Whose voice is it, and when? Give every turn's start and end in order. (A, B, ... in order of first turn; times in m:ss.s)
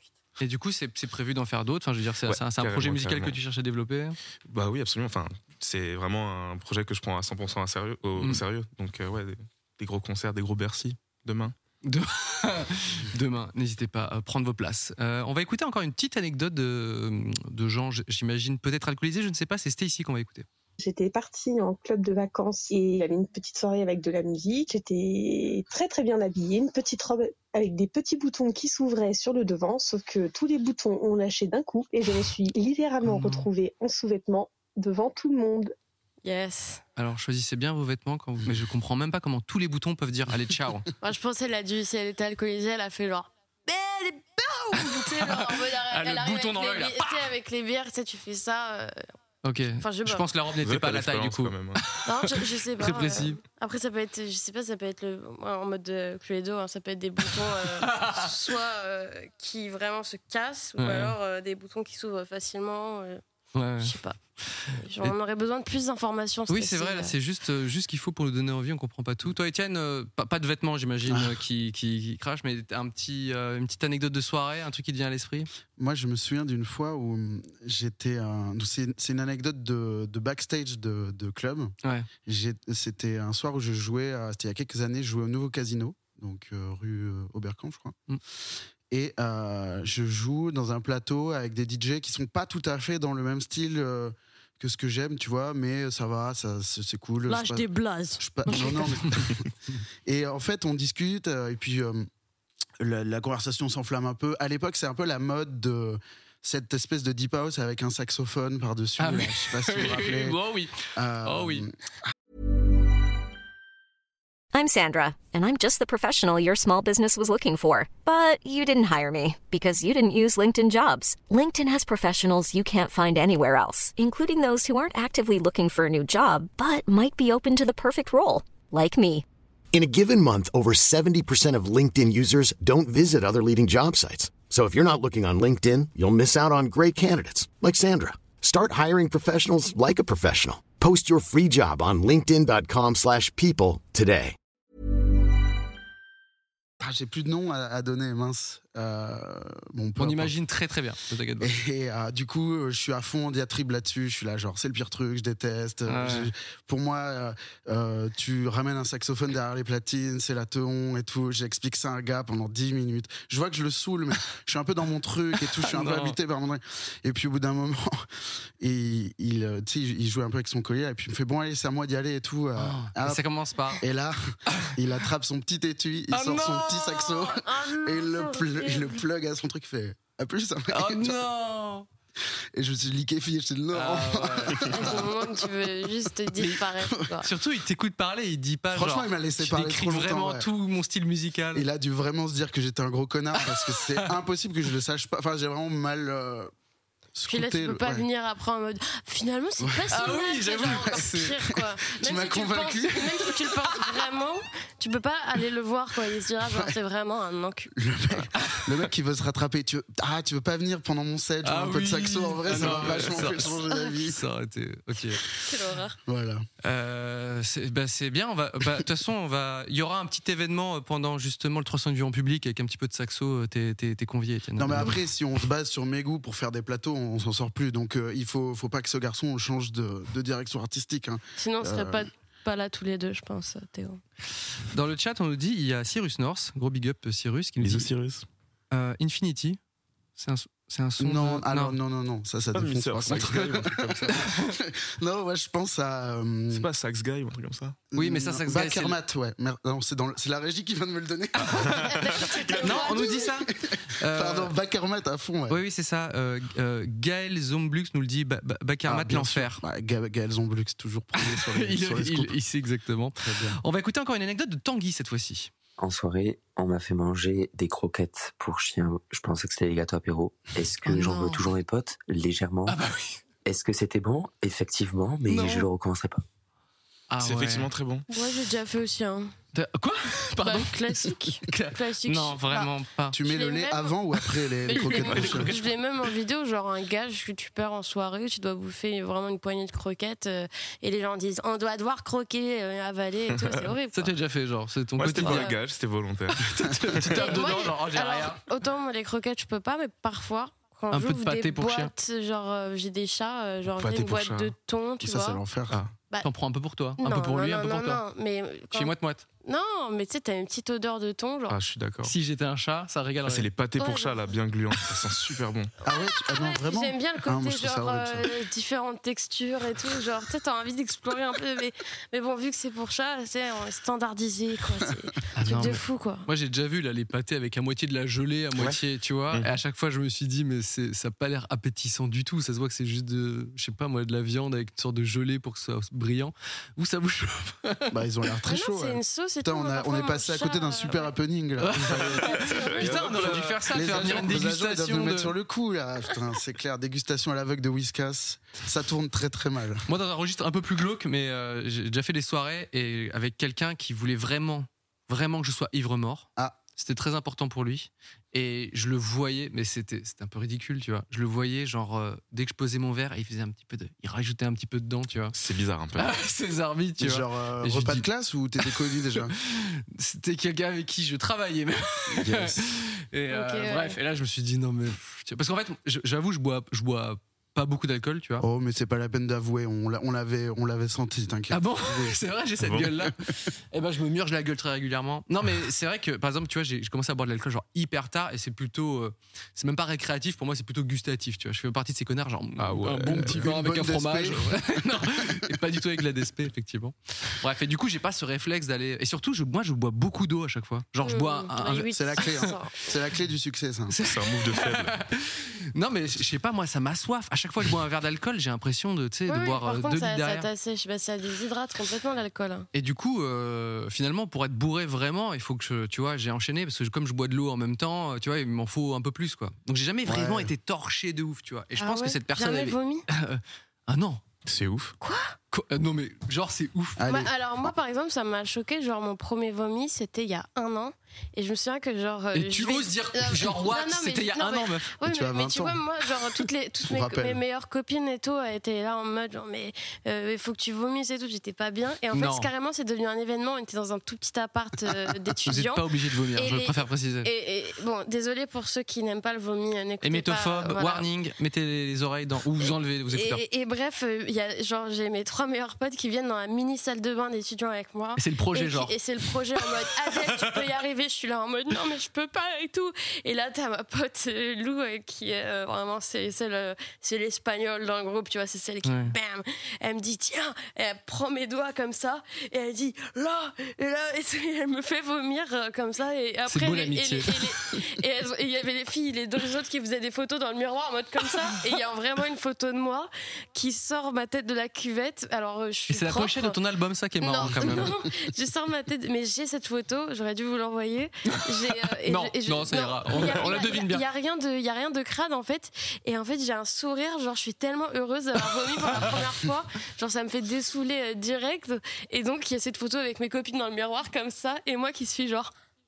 0:00.4-0:04.2 A
0:02.2-0:03.4 B
0:04.4-0:11.5 B
0:08.2-0:08.4 A
0:11.8-0:20.5 A
0:20.8-0:35.7 C
0:33.0-0:33.5 A
0:36.2-0:36.8 D
0:37.0-0:40.9 A
0:41.0-0:49.0 D
0:44.7-0:47.3 A
0:49.4-0:53.4 A
0:49.8-0:50.3 D
0:50.6-0:51.8 B
0:52.0-1:03.2 D
0:57.6-0:58.3 A
1:00.8-1:01.2 A
1:03.5-1:04.0 A
1:03.8-1:04.2 D
1:04.5-1:05.1 A
1:04.7-1:07.1 D
1:06.5-1:15.5 A
1:11.1-1:11.4 E
1:15.8-1:21.7 E
1:22.2-1:28.0 E
1:28.9-1:39.5 E
1:37.3-1:38.9 D
1:40.0-1:42.1 E
1:42.8-1:50.4 E
1:49.0-1:51.6 A
1:50.9-1:51.7 E
1:54.5-2:09.2 F
2:09.7-2:24.4 G
2:26.8-2:30.3 E
2:30.0-2:31.5 A
2:31.4-2:48.1 E
2:35.9-2:36.3 A
2:45.5-2:46.2 A
2:48.6-2:53.2 E
2:52.6-2:53.8 A
2:53.8-2:54.2 E
2:54.7-3:01.2 E
2:56.1-2:57.4 A
2:57.4-2:59.0 D
3:00.7-3:01.9 A
3:02.5-3:05.5 E
3:03.7-3:04.8 A
3:04.7-3:07.3 D
3:07.2-3:11.6 A
3:08.7-3:10.5 E
3:11.5-3:16.5 E
3:13.4-3:14.1 A
3:17.1-3:18.1 E
3:17.3-3:27.7 D
3:19.6-3:23.1 E
3:19.9-3:21.3 A
3:26.4-3:26.7 E
3:27.7-3:34.2 E
3:28.4-3:28.8 A
3:31.4-3:35.2 A
3:33.7-3:33.9 D
3:35.4-3:36.0 D
3:36.0-3:36.4 E
3:36.6-3:45.0 A
3:44.6-3:52.0 E
3:51.4-3:54.0 D
3:54.7-3:57.9 A
3:57.6-3:58.2 B
3:58.7-3:59.6 A
4:00.2-4:01.8 A
4:01.0-4:06.7 E
4:02.5-4:04.2 B
4:04.1-4:04.5 A
4:06.5-4:07.8 B
4:07.9-4:12.1 E
4:08.0-4:09.0 A
4:11.4-4:13.0 B
4:11.8-4:13.3 D
4:12.6-4:14.5 A
4:13.2-4:15.6 E
4:15.5-4:19.6 A
4:18.8-4:22.4 E
4:21.2-4:25.5 A
4:23.2-4:23.6 E
4:25.8-4:32.8 H
4:30.8-4:31.4 A
4:32.7-4:33.2 A
4:33.4-4:36.2 H
4:35.3-4:35.7 A
4:37.1-4:37.7 A
4:37.2-4:38.1 B
4:38.1-4:39.3 D
4:39.5-4:43.2 A
4:40.4-4:42.7 D
4:43.1-4:45.6 E
4:43.2-4:44.0 D
4:44.6-4:54.1 D
4:44.8-4:45.5 A
4:53.4-4:53.6 B
4:53.9-4:55.5 A
4:55.0-4:57.4 B
4:55.2-4:55.6 D
4:56.4-4:58.4 A
4:57.1-5:05.4 D
5:00.9-5:01.9 A
5:03.7-5:04.5 B
5:05.0-5:05.8 E
5:06.2-5:08.0 A
5:07.0-5:11.6 D
5:08.7-5:09.2 A
5:11.5-5:12.1 B
5:12.0-5:13.5 A
5:13.2-5:15.7 B
5:13.8-5:14.3 D
5:15.8-5:18.3 E
5:15.8-5:26.3 D
5:25.3-5:37.9 A
5:37.9-5:42.6 E
5:38.5-5:41.1 D
5:41.6-5:45.3 A
5:42.0-5:44.2 B
5:43.2-5:49.8 E
5:49.9-6:05.3 A
6:05.3-6:06.1 B
6:06.0-6:08.1 A
6:07.0-6:09.3 E
6:08.7-6:18.4 A
6:12.1-6:12.6 E
6:13.3-6:14.0 D
6:18.4-6:22.2 E
6:21.5-6:42.5 A
6:22.6-6:22.9 B
6:32.6-6:33.4 B
6:33.2-6:34.6 E
6:41.0-6:42.8 D
6:41.9-6:43.9 E
6:43.9-6:50.5 A
6:44.0-6:45.0 B
6:49.3-6:52.7 D
6:52.7-7:04.2 A
7:00.0-7:00.5 E
7:01.8-7:03.0 D
7:04.4-7:05.0 B
7:05.0-7:05.4 D
7:05.5-7:07.1 A
7:07.0-7:07.7 E
7:07.1-7:31.1 D
7:12.3-7:14.9 A
7:15.0-7:15.8 E
7:16.8-7:17.4 E
7:22.1-7:22.5 A
7:25.5-7:27.3 A
7:30.0-7:33.4 A
7:33.1-8:06.6 D
7:38.2-7:39.0 A
7:48.8-7:49.1 A
7:56.5-7:57.8 A
8:05.9-8:07.9 A
8:07.2-8:25.5 D
8:11.3-8:14.0 A
8:18.7-8:19.2 A